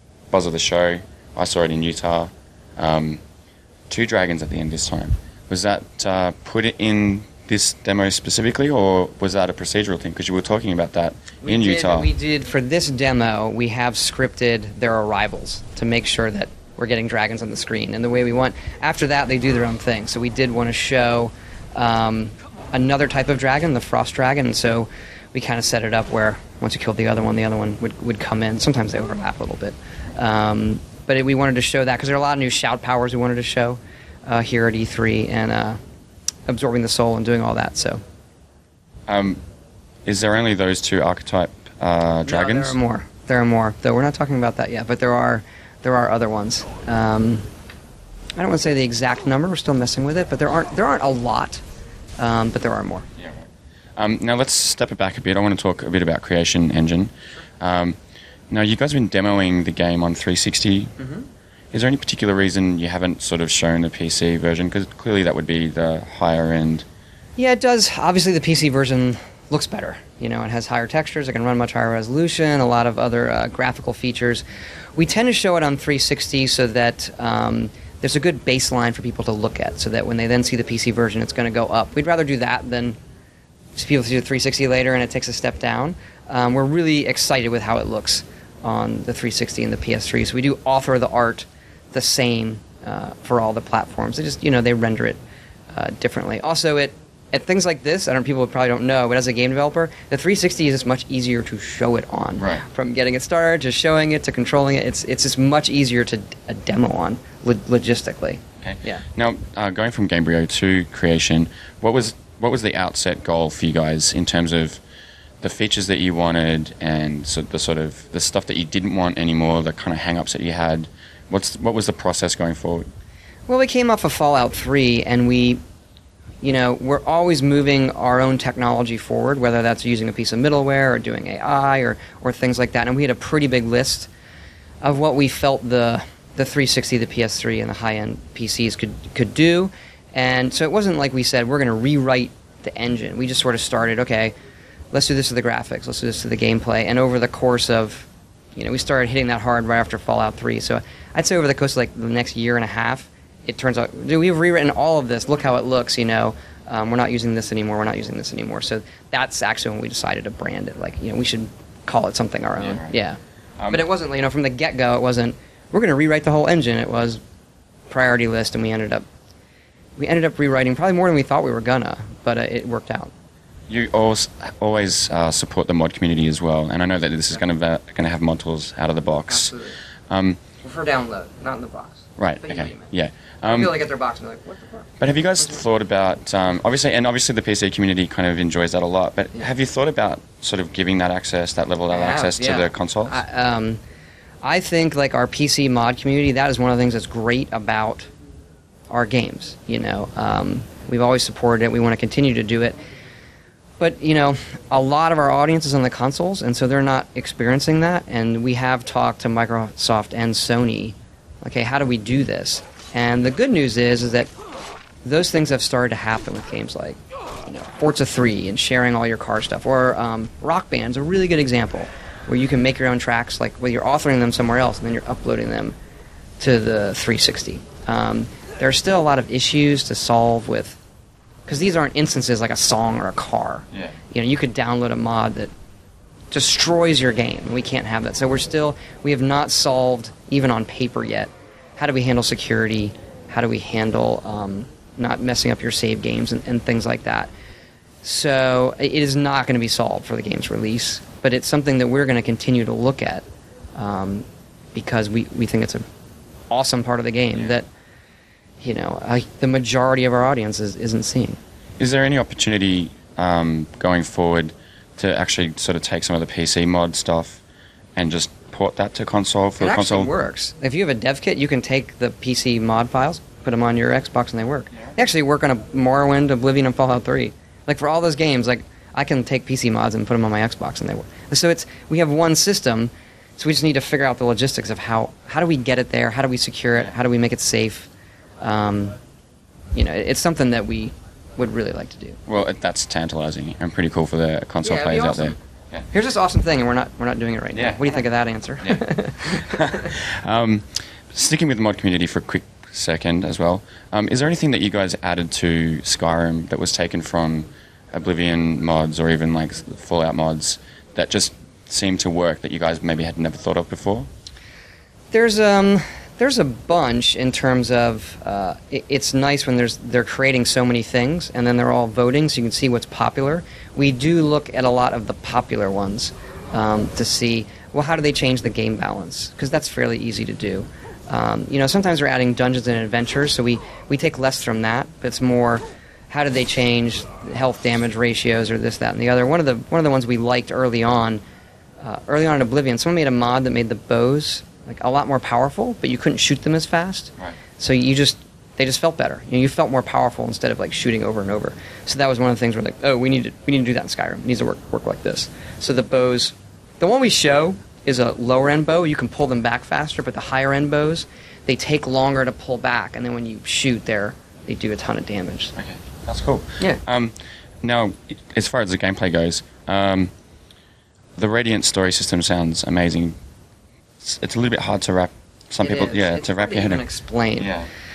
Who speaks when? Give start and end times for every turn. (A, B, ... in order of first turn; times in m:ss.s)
0:00.3-0:03.2 A
0:03.9-0:12.1 A
0:11.4-0:35.8 B
0:36.5-0:38.0 B
0:39.1-0:39.4 A
0:40.0-0:42.8 A
0:42.2-0:47.5 B
0:48.4-0:51.6 B
0:52.2-0:53.0 B
0:53.2-0:53.4 A
0:54.0-0:58.0 A
0:58.5-1:00.9 A
1:01.0-1:01.2 B
1:01.7-1:06.8 A
1:07.4-1:14.4 B
1:15.0-1:23.0 B
1:23.7-1:35.2 B
1:35.7-1:49.0 B
1:42.4-1:42.6 A
1:48.6-1:54.8 A
1:55.4-2:02.9 A
2:03.5-2:05.6 B
2:06.4-2:14.1 B
2:14.8-2:24.3 B
2:24.9-2:47.2 B
2:42.6-2:42.9 A
2:43.6-2:43.8 A
2:47.9-2:49.0 B
2:50.0-2:53.1 B
2:53.7-2:59.5 A
2:59.2-2:59.8 B
3:00.1-3:00.4 A
3:00.6-3:02.9 B
3:02.2-3:03.7 A
3:03.4-3:04.9 B
3:05.0-3:13.2 A
3:11.9-3:13.8 B
3:14.4-3:18.1 B
3:18.9-3:22.8 B
3:23.8-3:34.3 B
3:35.0-3:45.8 B
3:46.4-3:50.8 B
3:51.5-3:55.5 B
3:56.3-4:07.3 B
4:08.0-4:15.8 B
4:16.5-4:17.6 B
4:18.6-4:21.4 B
4:21.8-4:27.4 A
4:28.0-4:30.1 A
4:29.6-4:47.9 B
4:48.4-4:49.0 B
4:49.7-4:52.2 B
4:52.3-4:55.8 A
4:54.6-4:55.4 B
4:55.9-4:59.9 B
4:57.5-4:57.9 A
4:59.5-5:14.1 A
5:15.1-5:41.2 B
5:41.8-6:05.5 B
6:05.6-6:10.1 A
6:11.2-6:13.2 A
6:14.0-6:16.8 A
6:15.6-6:17.5 B
6:17.4-6:17.7 A